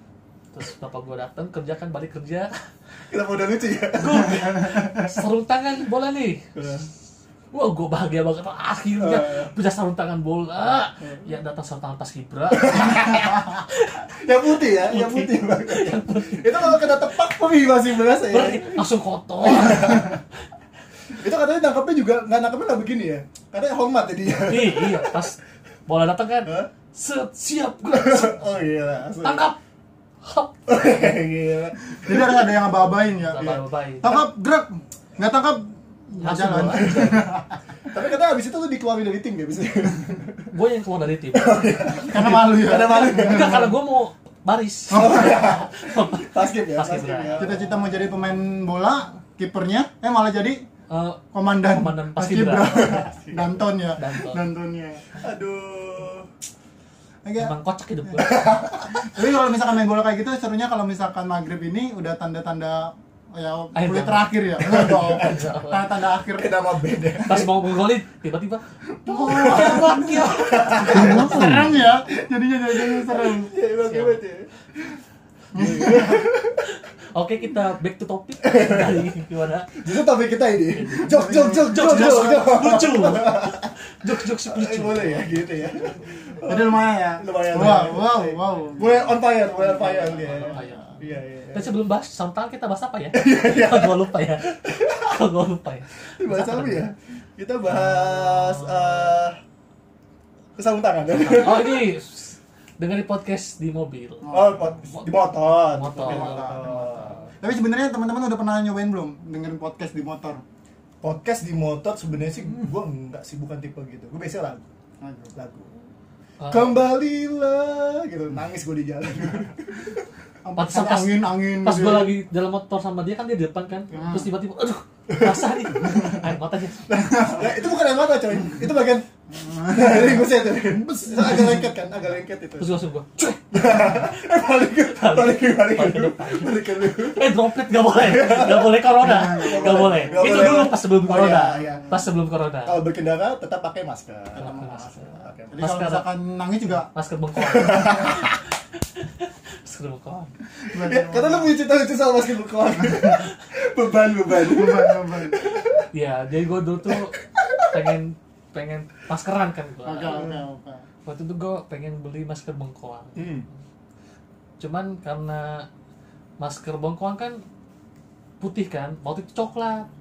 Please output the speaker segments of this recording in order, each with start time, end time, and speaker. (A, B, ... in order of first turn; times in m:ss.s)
0:00.5-0:02.5 A
0:03.1-0:05.1 B
0:03.9-0:06.8 A
0:06.6-0:06.9 B
0:07.5-0:14.1 A
0:09.0-0:09.5 B
0:11.0-0:11.3 B
0:12.6-0:13.6 B
0:14.1-0:18.8 B
0:14.6-0:17.0 A
0:18.3-0:20.2 A
0:19.4-0:20.2 B
0:21.1-0:25.2 B
0:24.4-0:29.6 A
0:27.9-0:29.5 B
0:30.2-0:30.6 A
0:30.7-0:32.8 B
0:32.0-0:37.5 C
0:33.3-0:34.3 A
0:36.2-0:36.8 A
0:36.2-0:37.3 B
0:37.9-0:40.5 B
0:40.5-0:41.7 A
0:41.4-0:43.7 B
0:42.0-0:43.8 C
0:43.2-0:47.6 A
0:44.9-0:47.6 B
0:44.9-0:45.4 C
0:47.4-0:50.6 C
0:50.9-0:53.0 A
0:51.3-0:55.0 C
0:52.8-0:53.6 B
0:54.0-0:54.5 A
0:55.2-0:56.3 B
0:57.2-0:57.5 C
0:57.4-0:58.5 A
0:58.2-0:59.1 B
0:59.0-1:07.4 C
1:03.7-1:05.9 A
1:04.6-1:05.5 B
1:06.1-1:07.5 B
1:07.2-1:11.5 A
1:09.1-1:11.8 B
1:09.1-1:13.5 C
1:12.7-1:14.5 B
1:13.9-1:14.2 A
1:15.5-1:16.3 C
1:15.5-1:16.6 B
1:16.6-1:19.7 A
1:18.4-1:19.1 B
1:19.8-1:31.7 B
1:20.7-1:25.7 A
1:21.0-1:22.9 C
1:26.5-1:29.2 C
1:29.7-1:30.8 C
1:29.8-1:30.8 A
1:31.5-1:36.9 A
1:33.1-1:34.0 B
1:34.5-1:35.2 B
1:36.2-1:39.4 B
1:37.7-1:39.2 A
1:40.6-1:41.9 B
1:41.1-1:44.3 A
1:44.2-1:44.8 C
1:44.3-1:47.3 B
1:44.9-1:47.2 A
1:46.0-1:50.4 C
1:51.0-1:54.6 B
1:55.0-1:55.3 C
1:55.3-1:55.8 B
1:56.4-1:56.9 A
1:56.5-2:00.1 B
2:00.4-2:02.2 C
2:00.6-2:07.3 A
2:03.9-2:04.3 C
2:05.1-2:05.5 B
2:05.8-2:06.2 C
2:06.9-2:09.1 B
2:06.9-2:07.6 C
2:09.3-2:10.5 C
2:09.6-2:12.7 B
2:11.1-2:11.5 C
2:12.6-2:14.1 A
2:13.5-2:17.3 B
2:14.7-2:22.8 A
2:17.9-2:22.0 B
2:19.0-2:20.7 C
2:22.6-2:25.6 B
2:24.4-2:25.1 A
2:25.5-2:26.9 C
2:25.6-2:26.1 A
2:26.6-2:30.3 A
2:27.4-2:28.3 B
2:30.7-2:31.6 C
2:30.7-2:35.8 B
2:32.8-2:33.2 C
2:34.3-2:35.4 C
2:35.9-2:40.3 A
2:37.4-2:37.7 B
2:39.8-2:40.8 C
2:40.0-2:40.4 B
2:41.1-2:43.4 A
2:43.2-2:43.5 B
2:44.6-2:45.7 A
2:46.4-2:47.4 A
2:48.4-2:49.9 A